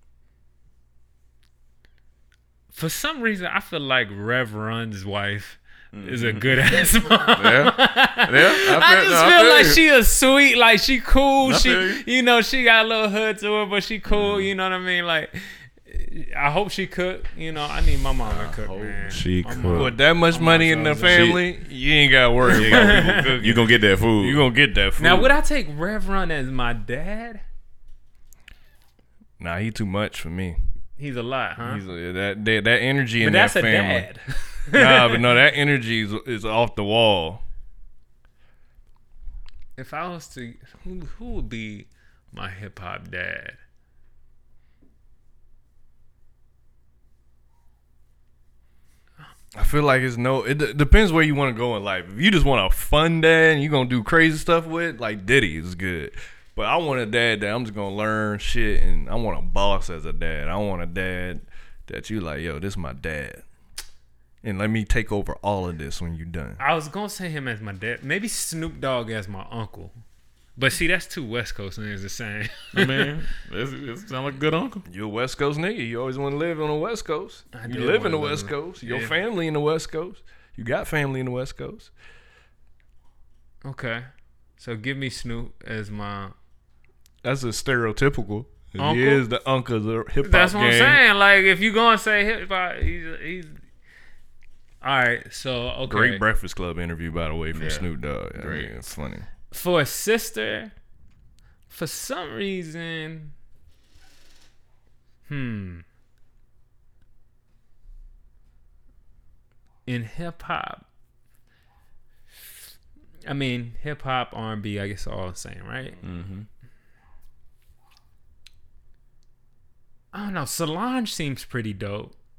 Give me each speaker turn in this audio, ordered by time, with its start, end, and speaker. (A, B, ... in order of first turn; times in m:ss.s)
0:02.7-0:21.4 A
0:05.9-0:06.8 B
0:07.3-0:09.8 B
0:11.4-0:12.0 B
0:14.1-0:14.5 B
0:18.2-0:20.0 B
0:19.7-0:23.6 C
0:21.1-0:21.4 B
0:22.4-0:23.3 A
0:22.5-0:24.4 B
0:24.2-0:25.3 C
0:25.0-0:27.4 A
0:29.4-0:30.6 C
0:31.0-0:31.8 A
0:31.6-0:34.1 C
0:33.2-0:35.2 A
0:34.7-0:37.4 C
0:39.8-0:43.6 A
0:49.5-1:03.4 C
1:04.4-1:06.6 C
1:06.6-1:09.9 A
1:10.6-1:13.1 A
1:12.7-1:14.8 B
1:14.9-1:21.9 C
1:17.5-1:19.1 A
1:23.6-1:24.1 A
1:24.6-1:26.3 A
1:27.2-1:31.0 C
1:28.8-1:29.2 A
1:30.2-1:33.5 A
1:34.8-1:36.2 A
1:35.9-1:39.2 C
1:37.5-1:38.7 B
1:39.5-1:40.7 A
1:41.7-1:43.3 A
1:45.3-1:45.8 A
1:49.8-1:50.8 A
1:53.2-1:56.0 A
1:56.0-1:56.4 B
2:00.1-2:02.1 A